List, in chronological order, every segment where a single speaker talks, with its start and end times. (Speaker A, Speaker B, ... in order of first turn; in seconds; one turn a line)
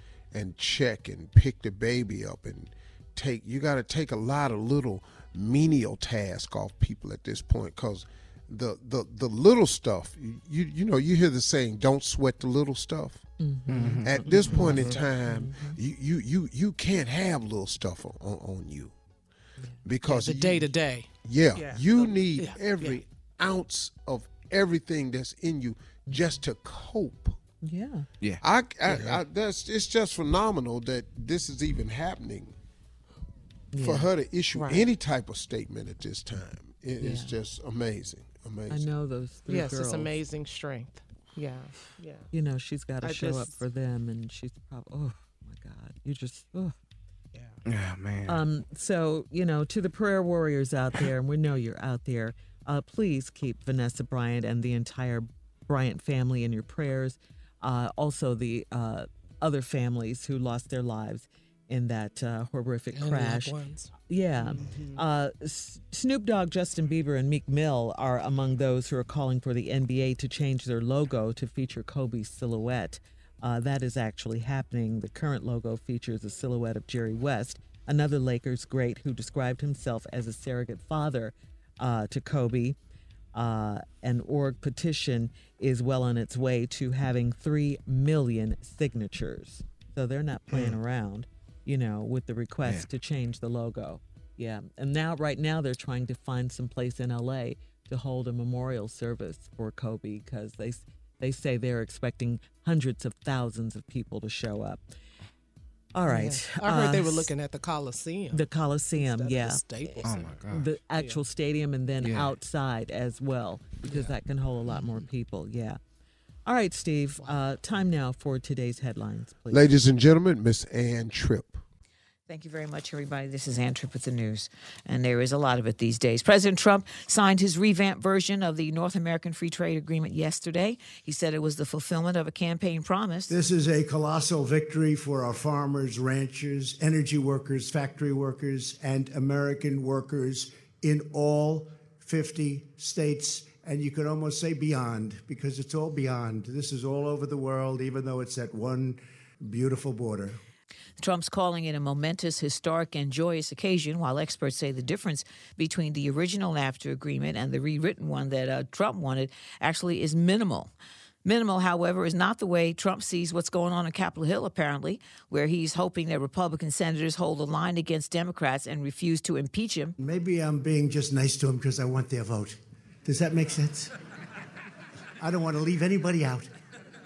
Speaker A: 0.3-13.2
Speaker B: 13.4-15.8
Speaker C: 13.7-14.1
Speaker A: 14.0-18.9
Speaker A: 19.8-20.7
Speaker D: 20.1-23.0
Speaker A: 21.2-27.4
Speaker B: 26.1-26.4
Speaker B: 27.6-28.1
Speaker C: 28.2-29.2
Speaker A: 28.4-32.5
Speaker B: 33.7-34.1
Speaker A: 33.8-38.9
Speaker D: 34.5-34.9
Speaker B: 37.0-37.3
Speaker B: 38.7-40.1
Speaker D: 39.5-42.3
Speaker B: 42.3-46.7
Speaker D: 43.0-43.6
Speaker C: 47.6-48.4
Speaker B: 48.3-63.5
Speaker C: 62.9-63.9
Speaker B: 64.1-82.8
Speaker D: 64.4-65.0
Speaker B: 83.3-104.8
Speaker B: 105.9-107.3
Speaker D: 106.1-110.4
Speaker B: 108.3-109.6
Speaker C: 110.0-110.7
Speaker B: 110.5-115.8
Speaker D: 110.9-111.2
Speaker C: 112.0-112.3
Speaker C: 113.9-114.1
Speaker B: 116.5-119.7
Speaker A: 119.5-121.6
Speaker E: 122.3-133.3
Speaker F: 133.3-150.4
Speaker E: 151.0-160.7
Speaker E: 161.2-169.9
Speaker F: 170.0-173.9
Speaker F: 175.2-176.5